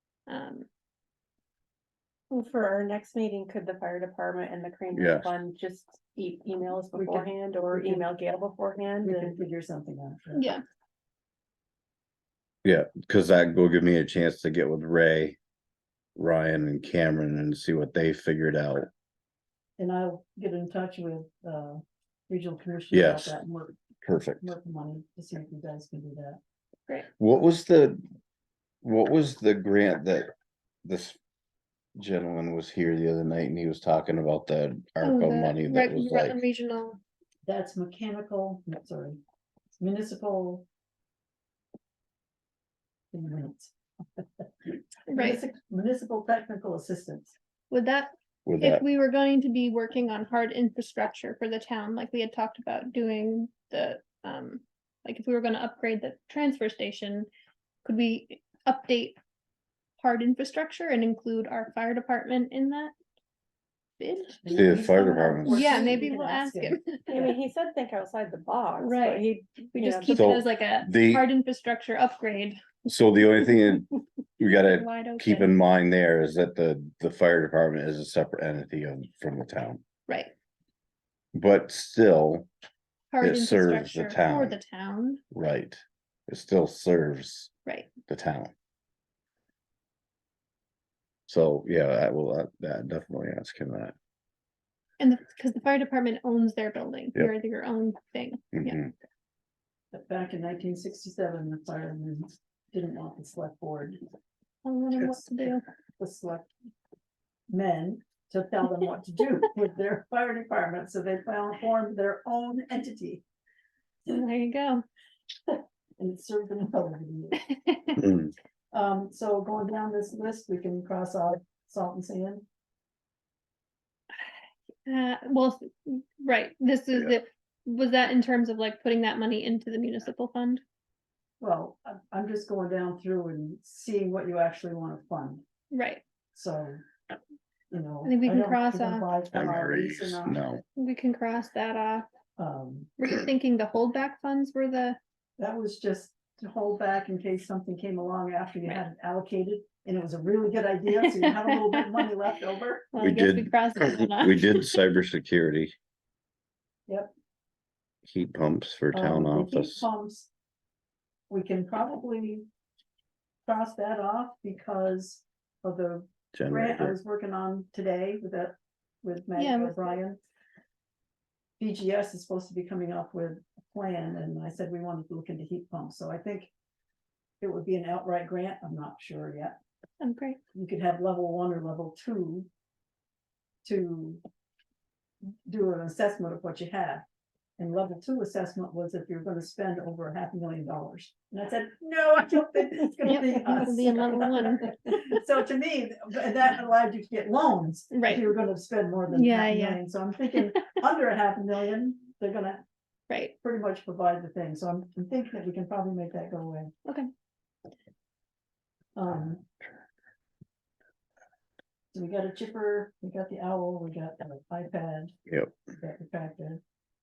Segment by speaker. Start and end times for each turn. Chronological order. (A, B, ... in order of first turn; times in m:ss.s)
0:00.3-0:00.7 A
0:02.3-0:09.4 B
0:04.9-0:05.3 C
0:06.9-0:08.1 D
0:09.0-0:10.5 D
0:10.4-0:10.6 A
0:12.6-0:15.4 C
0:16.2-0:18.9 C
0:19.8-0:23.8 D
0:22.9-0:23.4 C
0:24.0-0:24.5 C
0:24.4-0:26.4 D
0:27.2-0:28.0 C
0:28.8-0:30.3 C
0:30.8-0:31.2 C
0:32.0-0:36.4 C
0:35.0-0:37.0 A
0:37.4-0:39.2 D
0:39.8-0:40.6 D
0:43.1-0:47.3 D
0:45.1-0:45.4 A
0:47.7-0:57.3 A
0:48.4-0:48.8 C
0:57.8-0:59.2 A
1:00.0-1:02.9 A
1:04.0-1:04.4 A
1:04.4-1:07.3 D
1:04.5-1:05.8 C
1:05.5-1:07.2 A
1:07.1-1:10.2 B
1:08.8-1:12.6 A
1:10.1-1:11.3 C
1:12.8-1:13.9 C
1:14.4-1:19.8 C
1:14.5-1:15.5 A
1:21.3-1:22.5 C
1:23.1-1:25.2 A
1:23.2-1:24.5 C
1:25.3-1:27.5 C
1:28.1-1:28.5 C
1:31.3-1:33.9 C
1:35.0-1:38.8 A
1:38.5-1:38.9 C
1:39.9-1:44.0 D
1:44.6-1:45.6 A
1:44.9-1:46.5 D
1:47.5-1:53.2 D
1:54.1-1:54.8 A
1:55.5-1:57.4 D
1:57.6-1:58.0 A
1:58.7-2:02.4 D
2:04.8-2:10.6 A
2:11.4-2:15.4 D
2:15.7-2:16.0 A
2:16.3-2:16.8 D
2:17.7-2:20.4 D
2:18.0-2:19.1 A
2:19.3-2:20.6 C
2:20.8-2:22.1 A
2:22.4-2:22.9 D
2:23.0-2:25.0 A
2:25.4-2:32.9 D
2:31.0-2:31.7 A
2:32.9-2:34.8 A
2:33.0-2:35.7 C
2:36.9-2:37.1 D
2:38.0-2:39.9 C
2:38.9-2:40.3 D
2:41.3-2:42.4 D
2:43.4-2:50.2 D
2:46.3-2:46.9 C
2:49.4-2:50.0 A
2:51.6-2:56.5 D
2:57.4-2:59.6 D
3:00.0-3:00.4 A
3:00.5-3:02.5 D
3:03.6-3:04.2 D
3:05.4-3:07.0 D
3:07.6-3:22.6 D
3:13.0-3:14.7 A
3:17.9-3:18.2 A
3:19.1-3:19.8 A
3:23.4-3:26.7 D
3:29.0-3:29.4 D
3:31.9-3:35.1 D
3:35.7-3:36.6 D